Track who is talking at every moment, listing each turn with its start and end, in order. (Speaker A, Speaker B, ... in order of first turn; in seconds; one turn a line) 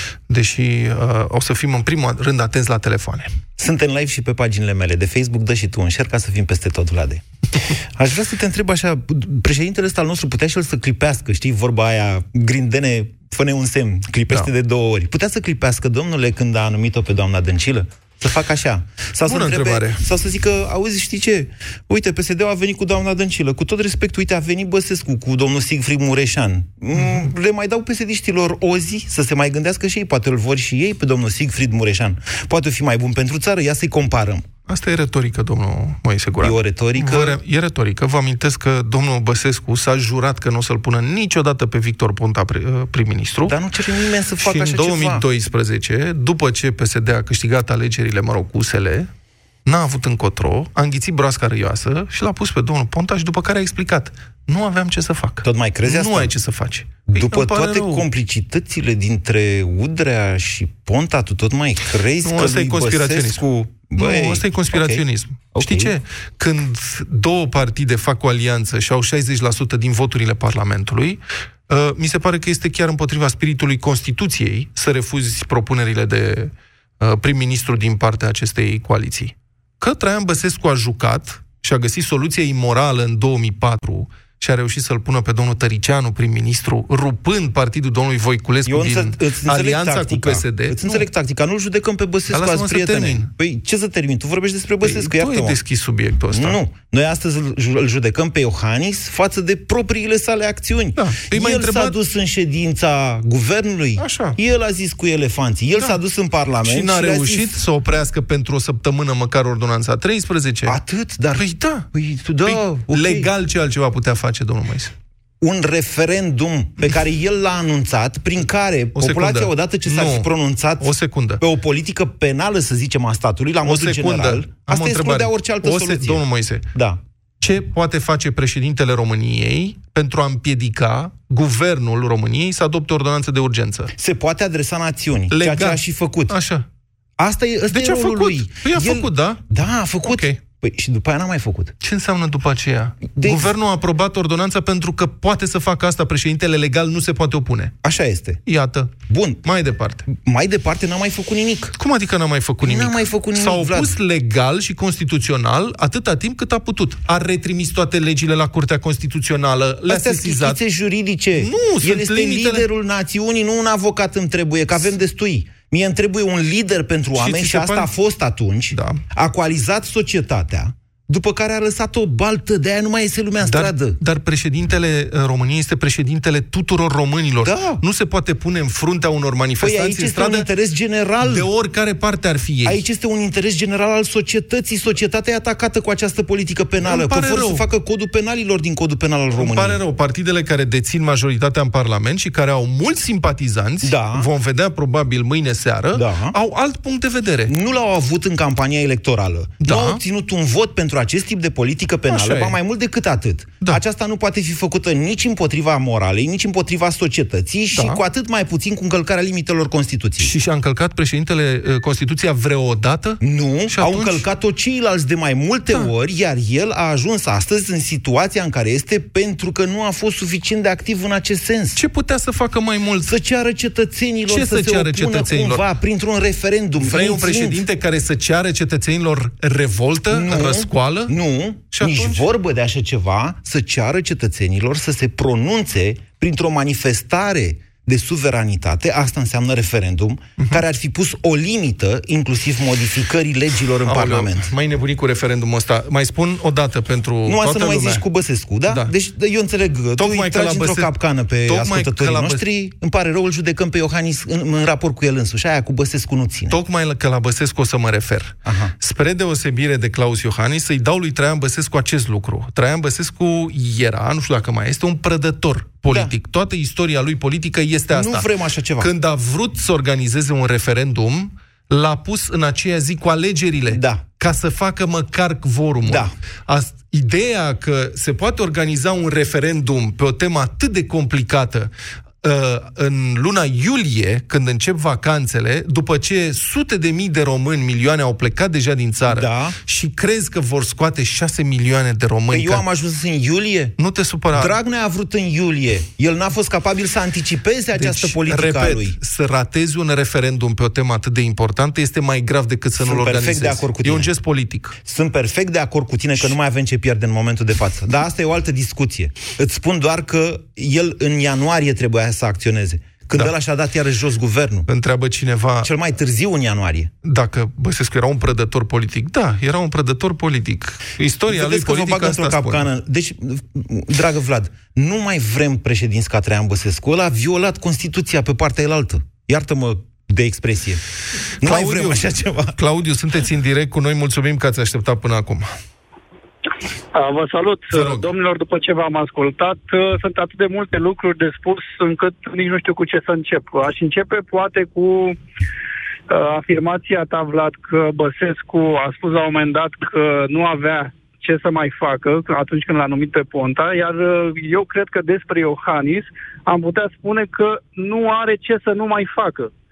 Speaker A: 0.3-3.4
Speaker B: 3.6-7.2
Speaker B: 7.9-34.5
Speaker A: 19.2-20.0
Speaker A: 26.9-27.3
Speaker A: 34.7-43.6
Speaker B: 36.4-37.4
Speaker B: 43.5-45.2
Speaker A: 44.4-49.1
Speaker A: 49.6-58.1
Speaker B: 55.4-56.3
Speaker B: 57.1-65.9
Speaker A: 62.2-63.4
Speaker A: 64.0-91.1
Speaker B: 88.6-95.6
Speaker A: 92.3-93.3
Speaker A: 94.8-96.6
Speaker B: 96.3-107.6
Speaker A: 101.0-101.9
Speaker A: 104.0-104.4
Speaker A: 106.6-110.8
Speaker B: 110.6-113.3
Speaker A: 111.4-111.8
Speaker A: 112.4-114.9
Speaker B: 115.4-127.0
Speaker A: 118.9-121.4
Speaker A: 123.6-126.7
Speaker A: 127.4-133.9
Speaker B: 133.9-136.3
Speaker A: 135.3-136.7
Speaker B: 137.2-141.7
Speaker A: 137.7-139.4
Speaker A: 140.1-140.4
Speaker A: 141.8-147.7
Speaker B: 143.1-143.5
Speaker B: 147.8-148.4
Speaker A: 148.4-150.1
Speaker B: 149.1-149.4
Speaker B: 150.1-151.8
Speaker A: 151.8-160.6
Speaker B: 152.6-154.0
Speaker B: 159.9-174.0
Speaker A: 161.3-162.7
Speaker A: 167.1-167.9
Speaker A: 168.7-169.0
Speaker A: 173.4-180.5
Speaker B: 177.4-177.8
Speaker B: 179.6-181.5
Speaker A: 181.2-182.8
Speaker B: 182.6-189.8
Speaker A: 186.8-187.6
Speaker A: 189.3-197.5
Speaker B: 193.8-194.3
Speaker B: 195.9-196.3
Speaker B: 197.5-210.3
Speaker A: 199.6-200.0
Speaker A: 202.1-202.6
Speaker A: 207.7-208.0
Speaker A: 210.2-214.2
Speaker B: 213.2-221.8
Speaker A: 221.8-223.2
Speaker B: 223.1-227.6
Speaker A: 224.3-225.6
Speaker A: 226.8-231.1
Speaker B: 230.1-244.5
Speaker A: 231.7-232.3
Speaker A: 243.8-248.0
Speaker B: 247.2-256.6
Speaker A: 250.0-250.9
Speaker A: 251.5-252.4
Speaker A: 256.5-268.3
Speaker B: 258.4-258.7
Speaker B: 265.9-266.1
Speaker B: 267.9-268.9
Speaker A: 268.8-281.7
Speaker B: 273.7-274.0
Speaker B: 275.8-276.1
Speaker A: 282.2-292.6
Speaker B: 289.1-289.6
Speaker B: 292.3-293.8
Speaker A: 293.8-294.6
Speaker B: 294.3-299.0
Speaker A: 297.7-304.8
Speaker B: 302.8-304.1
Speaker B: 304.8-314.7
Speaker A: 314.7-315.7
Speaker B: 315.6-316.9
Speaker A: 317.0-322.7
Speaker B: 321.3-330.8
Speaker B: 331.4-332.6
Speaker A: 331.4-335.5
Speaker C: 336.9-345.2
Speaker A: 337.7-338.1
Speaker C: 346.1-359.5